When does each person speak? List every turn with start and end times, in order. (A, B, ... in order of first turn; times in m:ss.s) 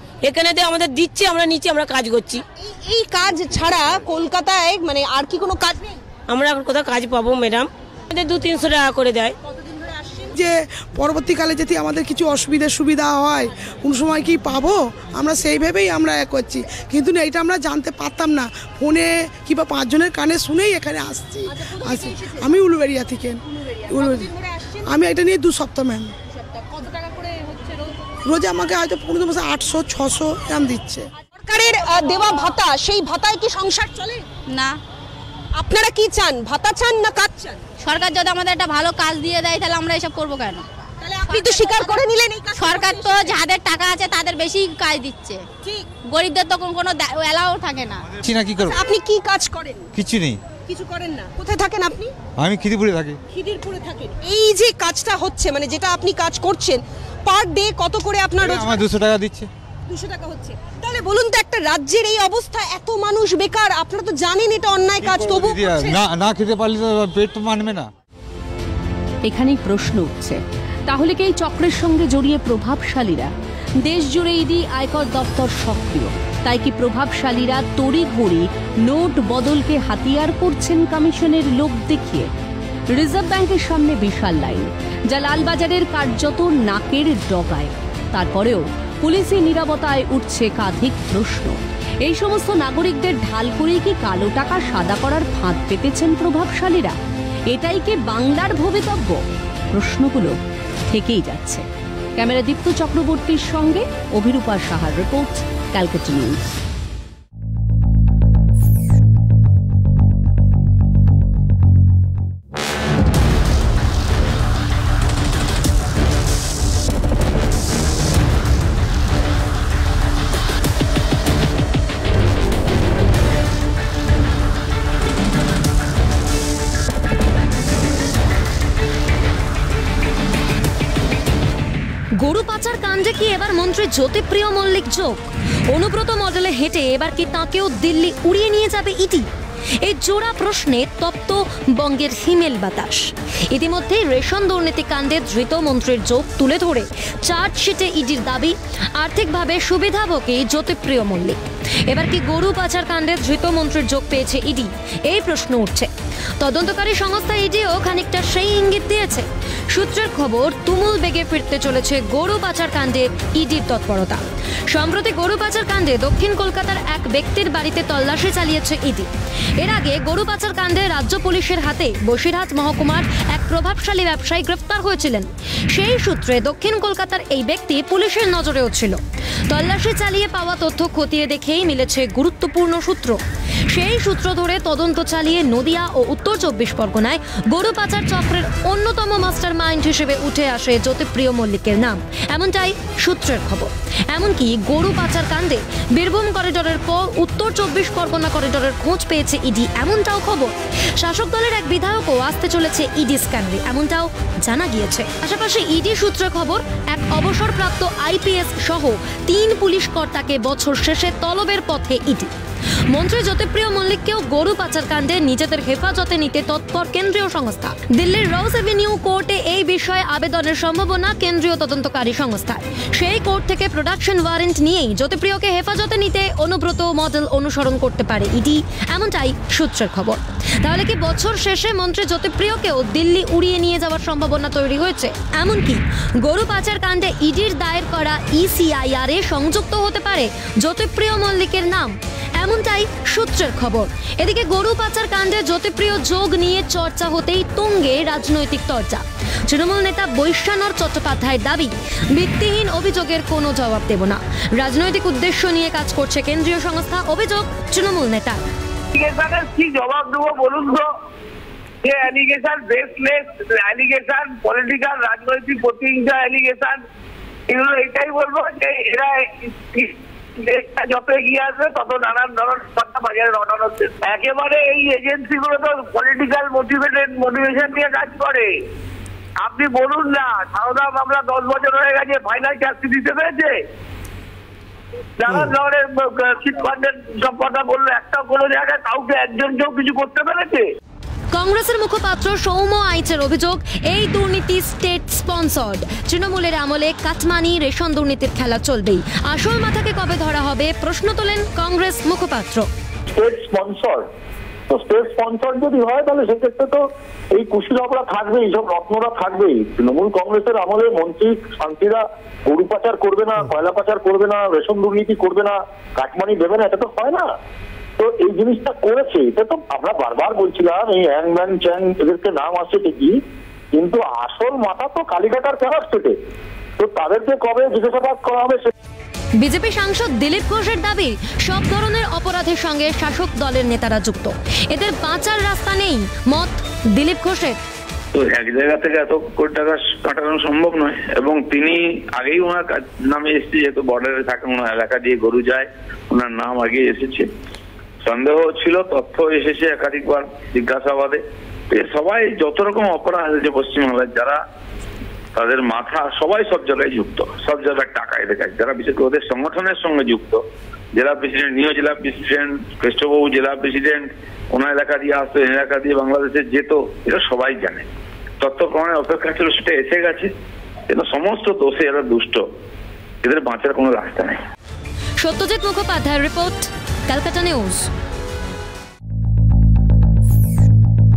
0:00.3-0:02.4 A
0:02.8-0:05.9 B
0:06.3-0:09.3 A
0:10.3-0:26.1 C
0:28.2-0:31.1 C
0:31.4-0:34.2 B
0:34.5-0:34.8 D
0:35.6-0:37.6 B
0:37.8-0:40.7 D
0:41.0-0:43.4 B
0:41.3-0:42.0 D
0:42.6-0:45.5 D
0:46.0-0:48.0 D
0:48.2-0:48.8 E
0:48.7-0:49.8 B
0:49.9-0:50.4 E
0:50.7-0:52.1 B
0:52.4-0:53.2 E
0:53.3-0:58.8 B
0:58.4-0:59.5 E
0:59.9-1:06.0 B
1:05.0-1:07.9 E
1:09.2-1:13.3 F
1:13.8-1:22.3 F
1:22.9-1:37.0 F
1:37.5-1:40.4 F
1:40.9-1:41.6 F
1:42.2-1:46.6 F
2:12.2-2:19.3 G
2:19.8-2:44.2 G
2:44.7-2:49.1 G
2:49.6-2:59.0 G
2:59.5-3:32.3 G
3:32.9-4:18.4 G
4:18.9-4:20.9 H
4:21.8-4:26.8 H
4:27.5-4:38.6 H
4:39.4-4:43.6 H
4:45.2-4:50.7 H
4:51.3-5:02.7 G
5:03.1-5:04.0 I
5:04.7-5:17.2 I
5:18.0-5:23.2 I
5:23.7-5:26.2 I
5:26.8-5:28.7 I
5:29.4-5:37.6 G
5:38.1-5:47.3 J
5:48.0-5:54.4 J
5:55.3-6:00.4 J
6:00.9-6:07.8 J
6:08.4-6:10.3 J
6:10.9-6:12.4 J
6:13.2-6:14.4 J
6:15.2-6:17.9 G